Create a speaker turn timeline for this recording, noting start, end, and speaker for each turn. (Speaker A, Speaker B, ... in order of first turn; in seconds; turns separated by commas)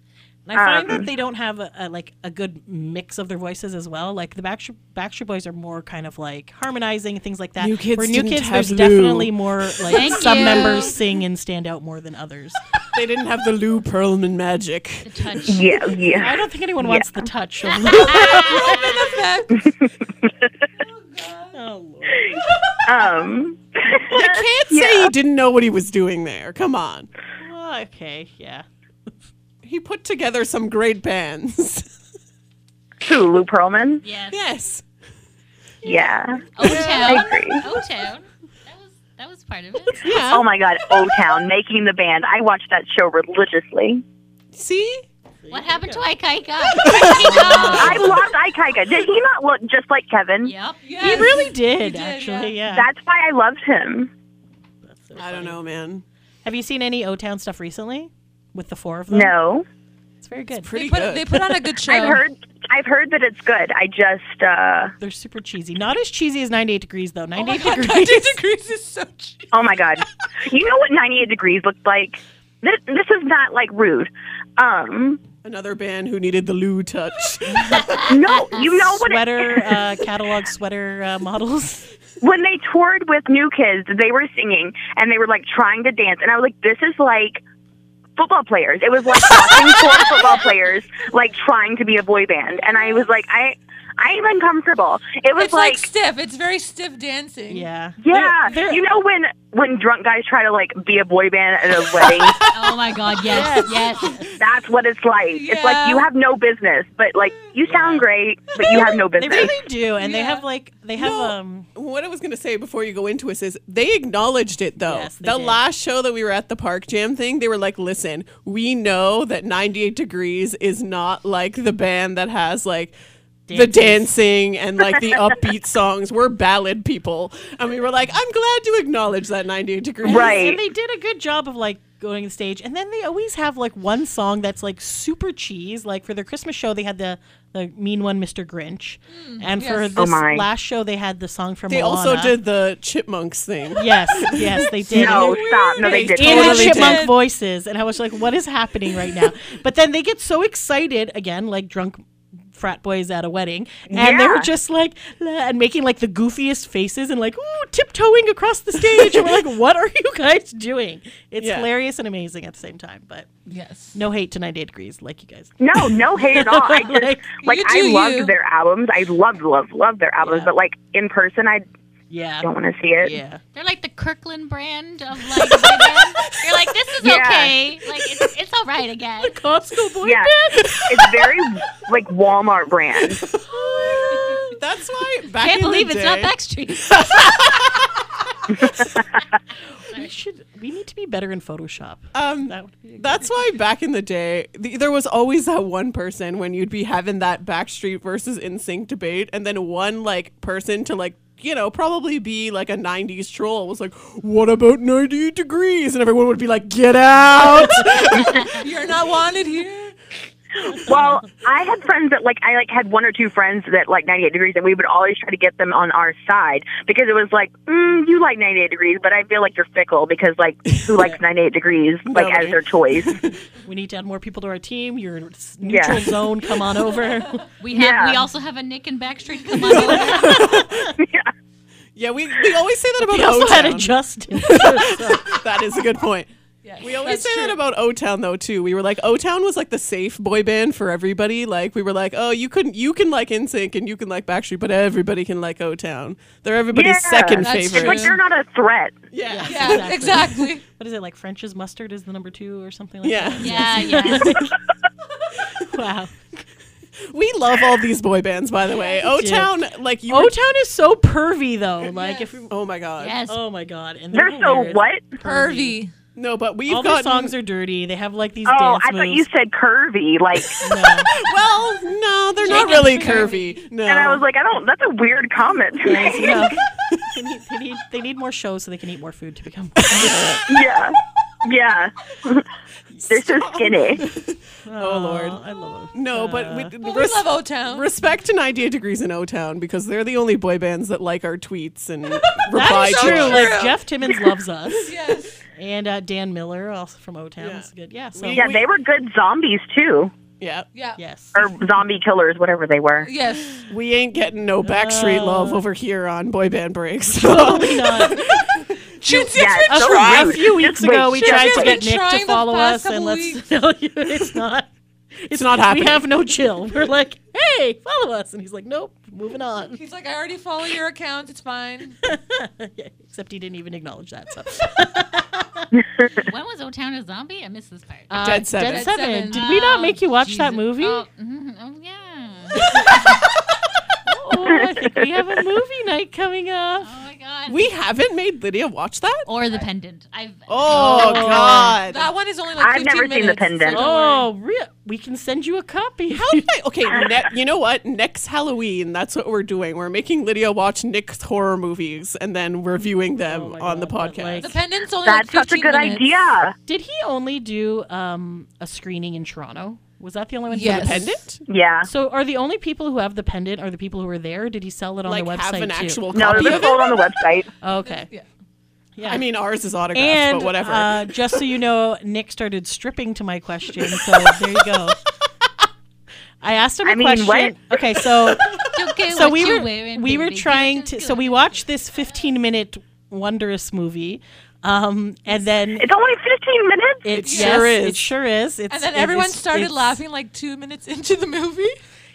Speaker A: 0.5-12.6, Speaker B: 0.5-1.1, Speaker C: 7.6-10.1, Speaker D: 9.9-10.9, Speaker E: 9.9-11.0, Speaker C: 12.9-15.6, Speaker D: 15.0-16.0, Speaker B: 15.4-17.2, Speaker A: 16.1-19.0, Speaker E: 17.8-19.9, Speaker D: 17.9-19.0, Speaker E: 20.8-21.6, Speaker A: 21.5-23.3, Speaker B: 22.8-25.1, Speaker C: 24.1-27.1, Speaker A: 27.4-28.6, Speaker C: 29.6-31.9, Speaker B: 33.0-34.0, Speaker D: 34.0-34.4, Speaker C: 34.3-34.8, Speaker B: 35.8-36.4, Speaker D: 36.5-40.1, Speaker C: 36.6-37.2, Speaker B: 37.0-37.6, Speaker C: 40.0-40.5, Speaker B: 40.2-44.0, Speaker C: 44.5-45.0, Speaker A: 45.4-46.0, Speaker D: 45.5-48.2, Speaker A: 46.8-48.2, Speaker C: 46.8-48.1, Speaker B: 47.8-50.5, Speaker D: 50.4-50.8, Speaker E: 50.8-52.6, Speaker A: 51.0-52.9, Speaker B: 52.7-54.1, Speaker A: 54.8-55.6, Speaker C: 55.1-56.0, Speaker A: 56.4-59.3, Speaker B: 59.1-59.6, Speaker A: 60.2-60.7, Speaker C: 60.6-61.7, Speaker E: 60.7-62.2, Speaker B: 61.9-64.9, Speaker A: 65.0-68.4, Speaker E: 67.3-69.5, Speaker B: 69.5-75.2, Speaker C: 75.4-78.1, Speaker B: 78.0-79.8, Speaker A: 78.6-81.8, Speaker B: 82.2-87.4, Speaker B: 88.2-95.8, Speaker E: 95.3-97.7, Speaker A: 97.5-98.8, Speaker B: 98.0-102.3, Speaker C: 102.0-102.5, Speaker D: 102.5-104.2, Speaker A: 103.2-104.3, Speaker B: 104.3-109.6, Speaker E: 105.3-106.1, Speaker A: 107.6-108.1, Speaker A: 108.7-111.7, Speaker E: 110.0-110.4, Speaker C: 111.0-122.9, Speaker A: 114.8-115.6, Speaker A: 123.5-124.1, Speaker C: 123.5-130.4, Speaker A: 130.0-142.3, Speaker B: 130.0-130.6, Speaker E: 139.1-140.0, Speaker B: 139.9-140.4, Speaker C: 141.7-147.1, Speaker A: 143.8-163.3, Speaker B: 144.9-146.9, Speaker E: 145.9-147.1, Speaker B: 153.9-154.5, Speaker C: 161.4-161.7, Speaker E: 163.5-164.0, Speaker A: 163.9-167.2, Speaker B: 165.6-171.6, Speaker E: 167.4-168.3, Speaker A: 170.2-170.5, Speaker A: 172.1-172.5, Speaker B: 172.4-173.2, Speaker A: 173.0-173.4, Speaker D: 173.5-179.4, Speaker A: 175.4-175.8, Speaker B: 177.0-177.5, Speaker A: 179.2-180.7, Speaker B: 180.0-183.2, Speaker C: 180.6-181.2, Speaker C: 183.2-186.3, Speaker A: 183.5-184.3, Speaker D: 185.4-187.4, Speaker C: 186.9-187.8, Speaker A: 189.9-193.2, Speaker C: 192.1-208.5, Speaker E: 208.4-209.9, Speaker B: 210.8-223.2, Speaker C: 222.0-223.3, Speaker A: 223.6-227.4, Speaker B: 225.6-226.1, Speaker D: 227.6-230.7, Speaker B: 227.7-228.2, Speaker E: 229.6-230.2, Speaker A: 229.7-230.9, Speaker C: 229.9-230.8, Speaker B: 230.9-231.3, Speaker C: 231.9-236.3, Speaker A: 233.0-235.4, Speaker E: 236.6-237.6, Speaker C: 236.8-248.2, Speaker B: 246.7-248.9, Speaker E: 247.4-248.1, Speaker C: 249.1-250.0, Speaker A: 249.3-254.6, Speaker E: 249.4-250.6, Speaker C: 253.0-254.2, Speaker D: 253.4-254.4, Speaker A: 255.6-256.4, Speaker C: 257.1-260.3, Speaker A: 259.0-259.5, Speaker A: 260.1-262.5, Speaker E: 262.0-262.3, Speaker C: 262.5-263.2, Speaker D: 263.0-263.4, Speaker A: 263.3-265.8, Speaker B: 264.1-265.1, Speaker E: 265.2-265.9, Speaker C: 266.1-267.3, Speaker A: 266.7-269.2, Speaker B: 268.4-270.6, Speaker C: 270.4-274.2, Speaker A: 270.6-271.1, Speaker A: 272.4-273.4, Speaker E: 272.5-273.3, Speaker B: 273.9-276.5, Speaker A: 275.8-276.6, Speaker C: 276.6-277.1, Speaker A: 277.1-280.4, Speaker C: 279.8-280.5, Speaker B: 280.4-282.4, Speaker B: 283.1-284.0, Speaker C: 283.3-285.4, Speaker A: 284.6-286.7, Speaker C: 285.9-293.6, Speaker E: 286.8-287.9, Speaker E: 292.2-293.8, Speaker A: 292.5-295.0, Speaker E: 294.8-295.4, Speaker A: 295.5-298.4, Speaker C: 297.4-298.6, Speaker B: 298.3-300.1, Speaker C: 300.4-300.7, Speaker E: 300.7-301.0, Speaker A: 301.0-301.4, Speaker B: 301.3-303.1, Speaker E: 303.0-303.7, Speaker C: 303.7-308.9, Speaker A: 304.6-305.6, Speaker A: 307.1-314.7, Speaker E: 309.0-309.9, Speaker B: 309.3-311.8, Speaker C: 309.6-310.4, Speaker E: 311.2-313.4, Speaker A: 315.2-319.8, Speaker C: 315.3-316.1, Speaker E: 319.7-322.0, Speaker A: 322.0-325.7, Speaker D: 326.1-328.1, Speaker A: 328.1-331.0, Speaker C: 328.2-328.9, Speaker E: 328.6-330.0, Speaker D: 329.3-332.9, Speaker A: 334.0-336.9, Speaker D: 336.8-337.7, Speaker C: 337.5-339.3, Speaker D: 339.2-341.5, Speaker C: 340.5-342.1, Speaker A: 340.7-341.8, Speaker E: 341.8-344.2, Speaker B: 342.6-343.9, Speaker A: 343.7-346.5, Speaker C: 346.1-354.5, Speaker A: 353.3-354.6, Speaker E: 354.4-356.2, Speaker B: 355.0-356.5, Speaker A: 356.7-361.2, Speaker E: 360.5-361.1, Speaker C: 360.6-361.4, Speaker B: 361.5-361.9, Speaker A: 361.8-366.7, Speaker C: 365.0-367.1, Speaker B: 366.1-367.5, Speaker A: 367.6-368.1, Speaker E: 367.9-368.3, Speaker A: 368.9-369.2, Speaker C: 369.0-371.1, Speaker A: 369.9-375.0, Speaker A: 376.4-385.9, Speaker B: 376.8-377.5, Speaker D: 378.7-381.6, Speaker B: 385.8-387.1, Speaker A: 387.0-390.0, Speaker C: 387.1-388.1, Speaker E: 387.3-387.6, Speaker E: 388.7-391.8